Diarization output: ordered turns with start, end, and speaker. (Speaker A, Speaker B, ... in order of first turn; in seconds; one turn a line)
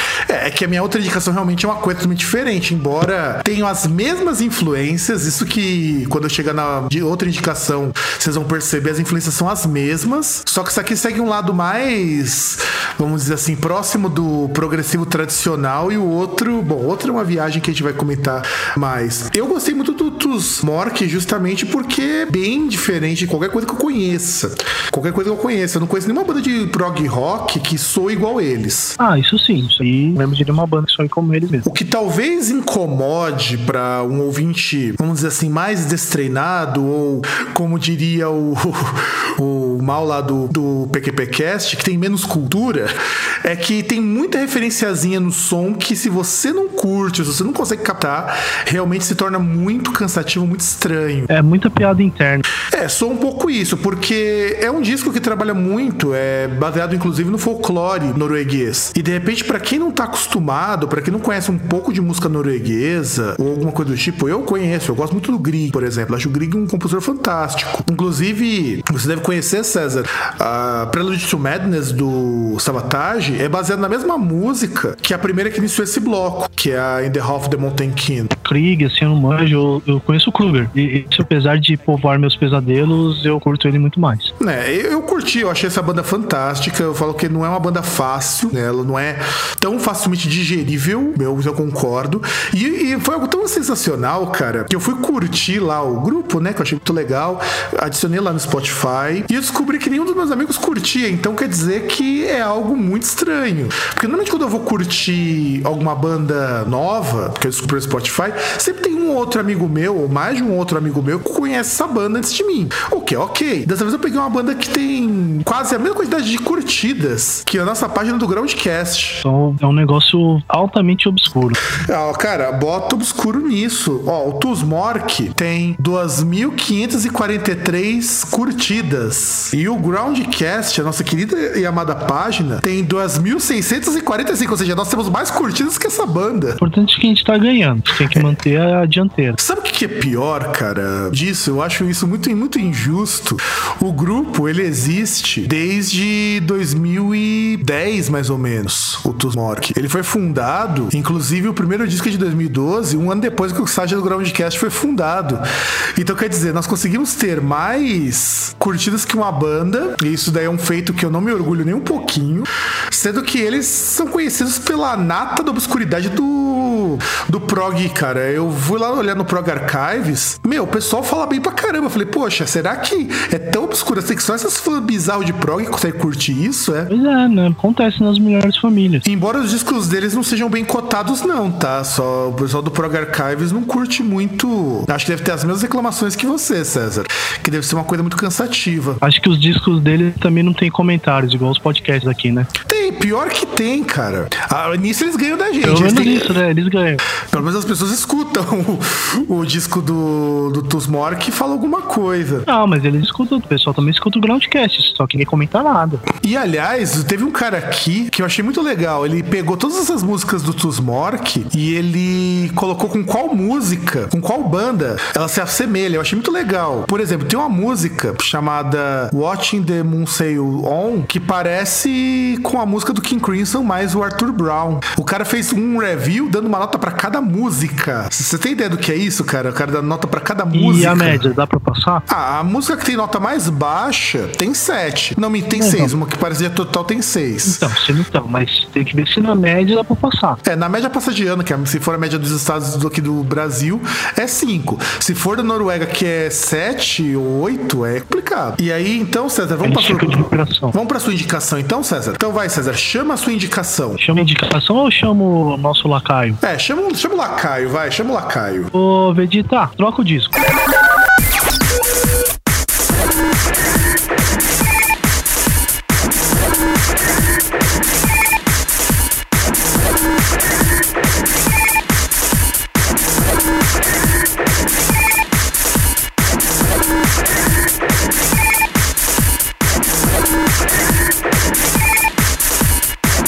Speaker A: 0.3-29.0
Speaker B: 29.0-31.7
Speaker A: 31.6-51.3
Speaker B: 51.3-52.4
Speaker A: 52.7-78.3
Speaker B: 78.3-84.3
Speaker A: 84.4-119.2
Speaker B: 119.2-121.6
Speaker A: 121.8-136.6
Speaker B: 136.6-139.4
Speaker A: 139.4-155.4
Speaker A: 155.9-176.9
Speaker B: 176.9-179.0
Speaker A: 179.0-189.0
Speaker B: 189.0-192.5
Speaker A: 192.7-196.4
Speaker B: 195.6-197.0
Speaker A: 197.3-202.4
Speaker B: 202.4-206.0
Speaker A: 206.2-231.3
Speaker B: 230.5-232.0
Speaker A: 232.1-237.7
Speaker B: 235.6-235.9
Speaker B: 237.4-240.4
Speaker A: 240.4-254.0
Speaker B: 249.6-250.7
Speaker B: 254.0-256.4
Speaker A: 256.4-258.7
Speaker B: 258.7-260.4